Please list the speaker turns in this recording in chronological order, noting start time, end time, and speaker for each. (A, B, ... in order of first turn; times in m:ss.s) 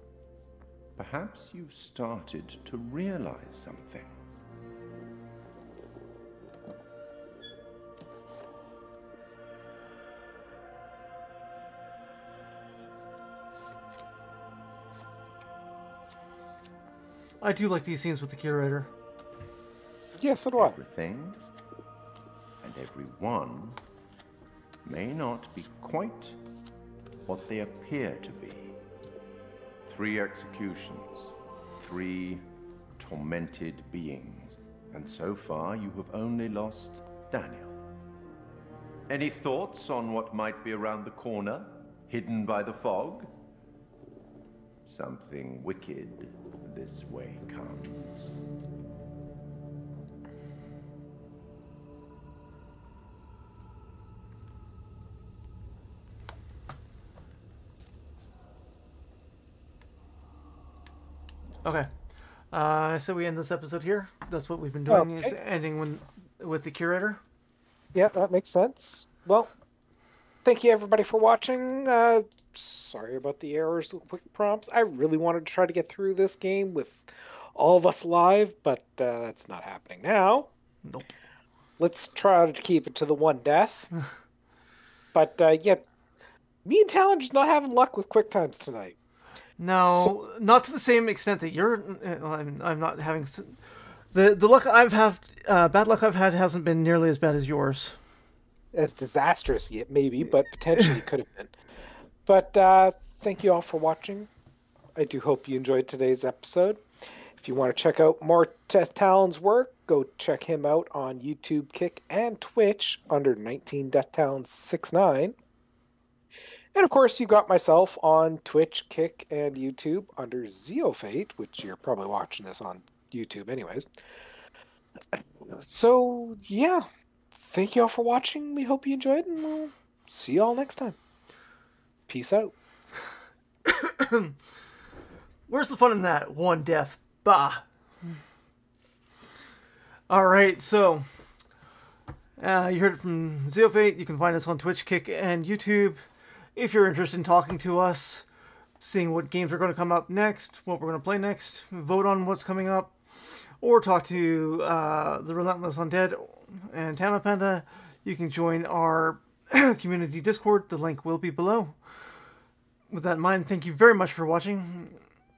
0:01.0-0:04.2 A
0:17.4-0:18.9 B
0:20.2-0:20.8 C
0:20.6-0:21.4 A
0:22.6-0:23.8 A
0:24.8-0:26.4 A
0:27.3-0:28.8 A
0:29.8-0:37.8 A
0:39.1-0:43.3 A
0:44.9-0:48.3 A
1:02.5-1:07.2 B
1:04.9-1:05.4 C
1:07.9-1:09.5 C
1:10.4-1:20.5 C
1:21.8-1:23.9 C
1:25.1-1:25.9 C
1:26.6-1:29.0 C
1:29.6-1:38.0 B
1:38.7-1:41.5 C
1:42.2-1:44.3 C
1:45.0-1:46.8 C
1:47.4-1:55.3 C
1:56.7-2:03.9 C
2:05.1-2:11.0 C
2:12.1-2:12.5 C
2:13.7-2:14.3 B
2:15.5-2:17.6 B
2:20.1-2:21.0 B
2:22.4-2:28.2 B
2:28.8-2:42.2 B
2:42.9-2:45.0 B